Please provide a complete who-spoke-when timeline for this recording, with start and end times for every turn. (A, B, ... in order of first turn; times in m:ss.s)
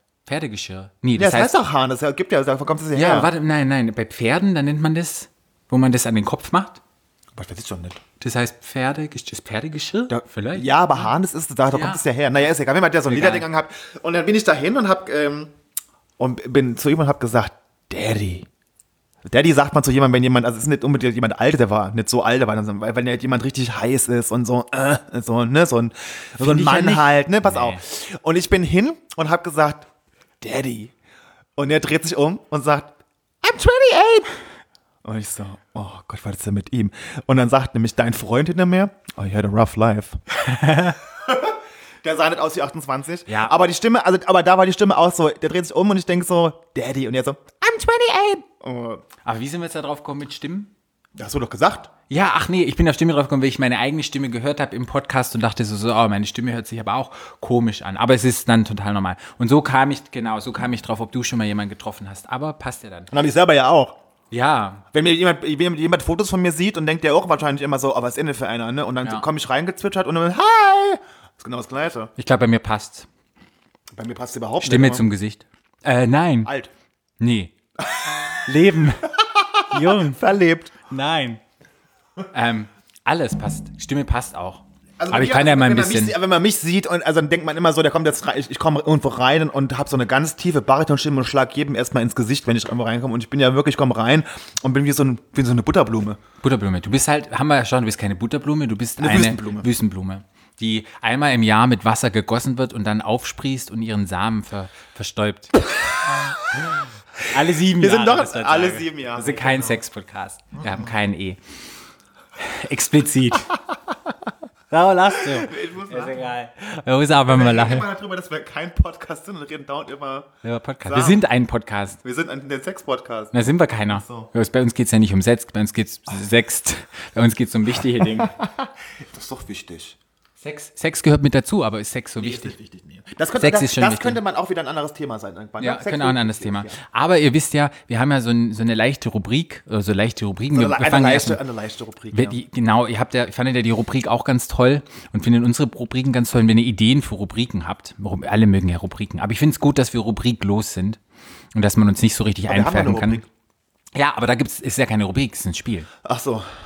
0:00.3-0:01.5 A
0:01.2-0:03.3 B
0:02.9-0:06.8 A
0:07.4-0:08.0 B
0:08.2-0:11.1 A
0:10.1-0:15.5 B
0:11.7-0:12.0 A
0:13.1-0:13.5 A
0:16.2-0:18.5 B
0:19.2-0:29.9 B
0:26.4-0:27.8 A
0:30.4-0:30.9 B
0:31.6-0:34.4 B
0:35.0-0:40.2 B
0:40.5-0:41.0 A
0:40.8-0:49.0 B
0:43.3-0:43.6 A
0:49.2-0:50.7 A
0:51.2-0:51.9 B
0:52.1-1:03.1 A
1:03.1-1:04.0 B
1:04.3-1:04.8 A
1:04.9-1:12.1 B
1:12.2-1:13.1 A
1:14.0-1:15.1 B
1:14.6-1:16.5 A
1:16.4-1:16.7 B
1:17.2-1:17.5 A
1:17.8-1:18.5 B
1:18.3-1:19.2 A
1:19.2-1:20.8 B
1:19.7-1:20.2 A
1:20.9-1:21.4 A
1:22.3-1:26.2 A
1:25.0-1:36.2 B
1:36.4-1:45.6 A
1:39.0-1:39.7 B
1:47.2-1:51.4 A
1:47.6-1:49.8 B
1:50.6-1:50.9 B
1:52.4-1:53.6 A
1:54.7-1:57.9 A
1:55.2-1:56.3 B
1:57.3-2:00.3 B
2:00.4-2:02.0 A
2:00.8-2:01.2 B
2:02.0-2:03.4 B
2:03.3-2:08.3 A
2:03.9-2:04.3 B
2:08.0-2:10.0 B
2:10.4-2:12.5 A
2:12.2-2:16.8 B
2:13.4-2:14.2 A
2:15.6-2:21.4 A
2:20.5-2:22.4 B
2:22.1-2:31.0 A
2:31.6-2:33.2 A
2:32.5-2:33.3 B
2:34.0-2:35.9 A
2:36.0-2:36.5 B